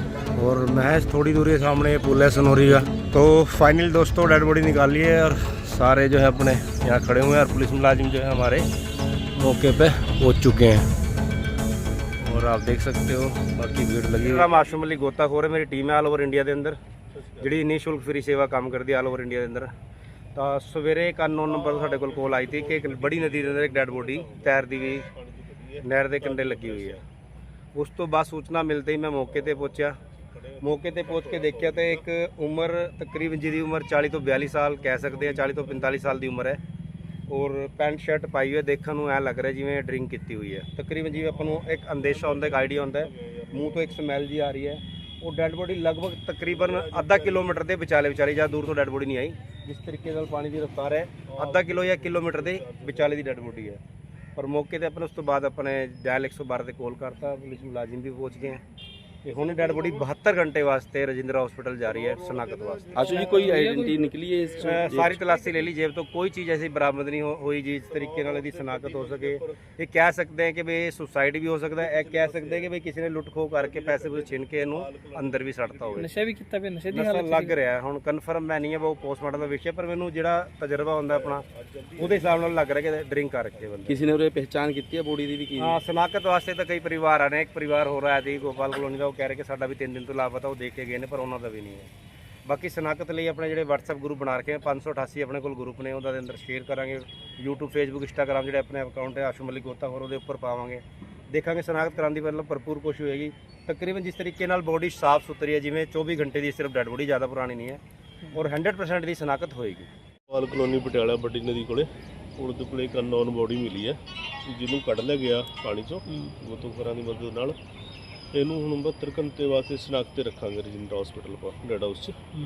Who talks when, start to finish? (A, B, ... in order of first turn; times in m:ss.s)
0:00.3-0:08.7 A
0:09.4-0:10.9 A
0:12.2-0:16.8 A
0:14.3-0:14.7 B
0:17.2-0:17.5 B
0:17.4-0:19.7 A
0:20.3-0:25.1 A
0:21.4-0:27.0 B
0:25.8-0:27.0 A
0:27.7-0:30.0 A
0:29.4-0:32.1 B
0:30.6-0:36.6 A
0:34.7-0:36.0 B
0:37.3-0:53.8 A
0:41.6-0:44.0 B
0:46.5-0:47.7 B
0:51.3-0:53.7 B
0:54.4-0:58.6 A
0:59.2-1:03.4 A
0:59.4-1:00.0 B
1:01.9-1:05.7 B
1:02.9-1:05.2 C
1:03.1-1:04.0 D
1:04.6-1:16.1 A
1:07.9-1:09.6 B
1:11.8-1:12.7 B
1:13.6-1:16.1 B
1:16.0-1:17.6 D
1:16.9-1:21.4 A
1:21.1-1:22.5 B
1:22.0-1:24.0 A
1:23.9-1:25.8 C
1:25.6-1:31.9 A
1:32.4-1:47.8 A
1:48.3-1:49.9 A
1:50.3-1:57.6 B
1:58.3-2:02.2 B